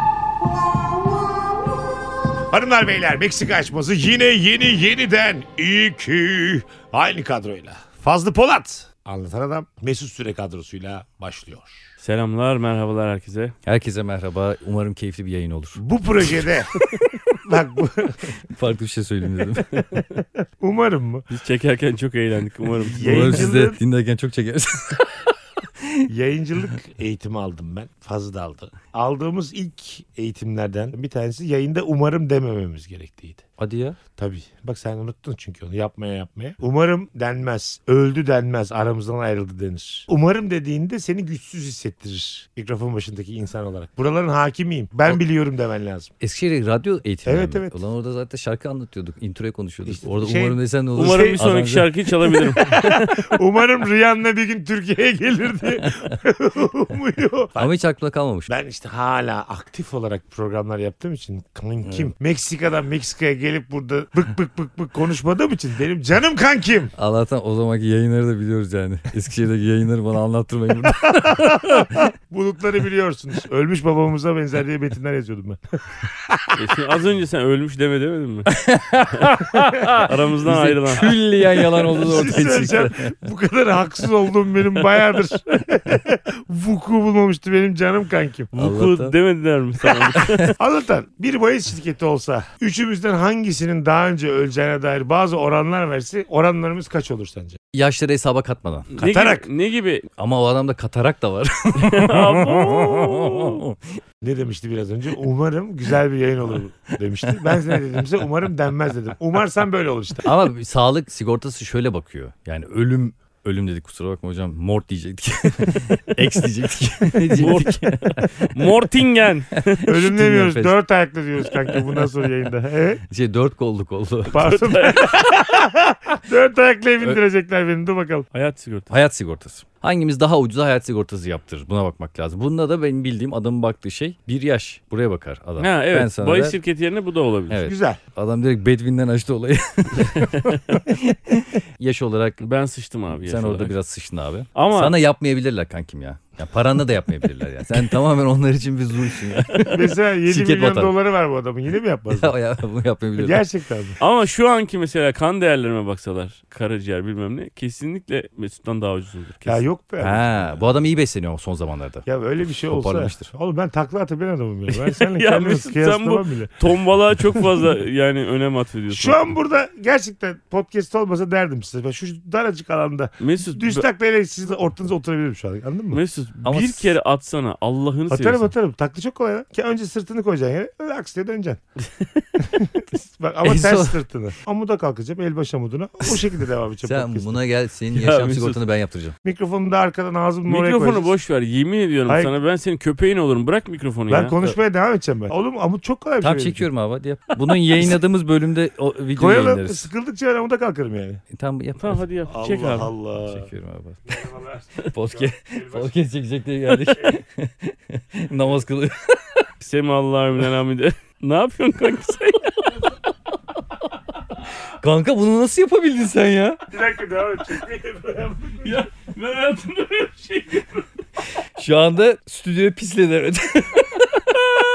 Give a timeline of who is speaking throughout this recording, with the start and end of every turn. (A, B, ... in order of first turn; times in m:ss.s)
0:02.5-0:11.8 A
0:12.0-0:13.6 B
0:13.7-0:15.8 C
0:15.8-0:16.8 A
0:17.4-0:18.3 A
0:18.5-0:19.7 C
0:20.6-0:21.2 A
0:21.3-0:23.5 B
0:22.8-0:23.8 A
0:23.0-0:25.1 C
0:25.8-0:26.1 C
0:26.1-0:33.4 A
0:33.6-0:34.0 C
0:34.2-0:46.1 A
0:46.2-0:51.9 C
0:47.3-0:47.8 A
0:49.9-0:51.4 A
0:51.0-0:53.2 B
0:52.6-0:57.7 A
0:57.6-0:58.5 C
0:58.5-1:06.9 A
1:01.8-1:02.1 C
1:07.0-1:12.0 C
1:11.1-1:16.6 A
1:16.6-1:18.5 B
1:18.5-1:23.1 C
1:20.0-1:21.2 B
1:21.9-1:28.5 A
1:28.5-1:30.5 B
1:28.6-1:29.1 C
1:30.2-1:30.5 C
1:30.6-1:37.6 A
1:37.7-1:38.9 C
1:38.9-1:40.1 B
1:39.0-1:39.5 A
1:40.2-1:43.8 C
1:41.8-1:43.6 B
1:44.2-1:50.3 A
1:50.2-1:58.5 C
1:57.3-1:59.9 B
1:59.8-2:00.8 C
1:59.9-2:03.0 A
2:03.1-2:04.4 C
2:04.3-2:08.3 A
2:04.3-2:05.3 B
2:08.3-2:08.9 B
2:08.9-2:16.6 C
2:15.6-2:17.6 B
2:17.5-2:22.4 C
2:17.6-2:18.0 A
2:22.4-2:23.7 B
2:23.2-2:31.0 C
2:24.6-2:25.0 B
2:29.7-2:32.4 A
2:32.1-2:33.4 C
2:33.2-2:34.0 A
2:34.0-2:39.6 B
2:39.4-2:40.8 A
2:40.0-2:42.1 C
2:42.1-2:46.6 A
2:42.7-2:43.3 C
2:45.0-2:49.4 B
2:48.9-2:56.0 A
2:53.2-2:53.8 B
2:55.9-2:58.5 B
2:56.4-2:56.9 C
2:58.1-3:01.6 A
3:02.4-3:07.4 A
3:03.4-3:04.0 C
3:06.9-3:09.2 C
3:07.9-3:08.6 B
3:09.2-3:11.1 A
3:10.5-3:14.4 B
3:12.1-3:12.3 A
3:14.1-3:16.7 A
3:16.2-3:19.9 C
3:19.2-3:21.2 A
3:21.3-3:22.0 C
3:21.8-3:22.9 B
3:22.3-3:23.5 A
3:23.2-3:24.2 C
3:24.1-3:25.9 A
3:24.8-3:29.4 C
3:29.6-3:33.0 B
3:34.8-3:36.6 C
3:36.7-3:38.8 A
3:38.6-3:40.9 B
3:41.6-3:44.1 C